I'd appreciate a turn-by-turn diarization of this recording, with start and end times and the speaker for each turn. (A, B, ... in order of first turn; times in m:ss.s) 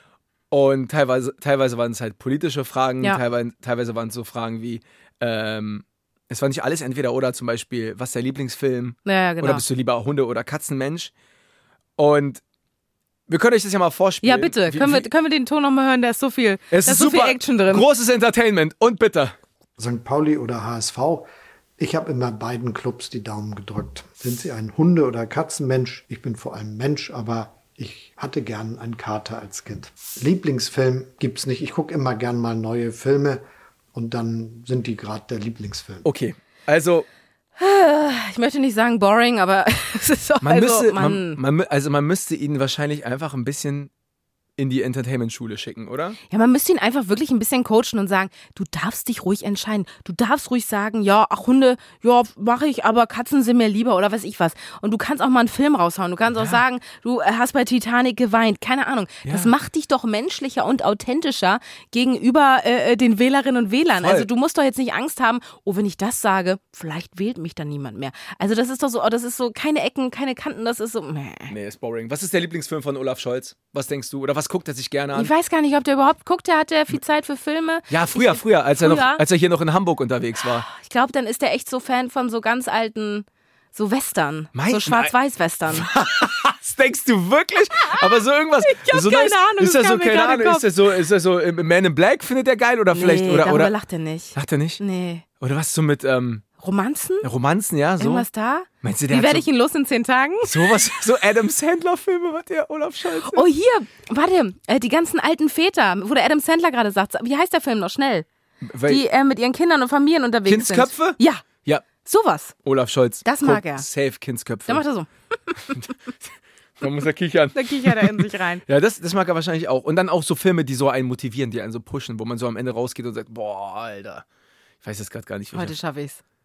0:00.5-0:11.1 A
0:09.0-0:09.6 B
0:12.0-0:12.4 A
0:13.3-0:15.1 A
0:14.2-0:17.8 B
0:16.7-0:19.4 A
0:19.8-0:36.1 C
0:36.0-0:37.1 A
0:37.6-0:41.4 B
0:40.4-0:43.9 A
0:44.6-0:46.2 A
0:46.3-1:11.5 B
0:56.3-0:56.6 A
0:59.2-0:59.5 A
1:04.0-1:04.3 A
1:11.5-1:15.3 A
1:15.1-1:19.2 B
1:17.9-1:20.7 A
1:20.6-1:25.9 B
1:24.5-1:25.1 A
1:25.7-1:33.7 A
1:28.6-1:30.7 B
1:32.9-1:35.2 B
1:34.4-1:34.8 A
1:35.4-1:36.4 A
1:36.6-1:37.3 B
1:37.2-1:38.3 A
1:38.0-1:40.9 B
1:38.8-1:39.4 A
1:40.4-1:43.4 A
1:43.2-1:48.3 B
1:48.6-1:49.0 A
1:48.9-1:51.4 B
1:50.4-1:51.9 A
1:52.0-1:52.5 B
1:52.6-1:54.8 A
1:53.2-1:53.8 B
1:54.7-1:55.8 B
1:56.8-2:04.2 A
1:57.6-1:58.6 B
2:04.8-2:05.7 A
2:05.5-2:06.2 B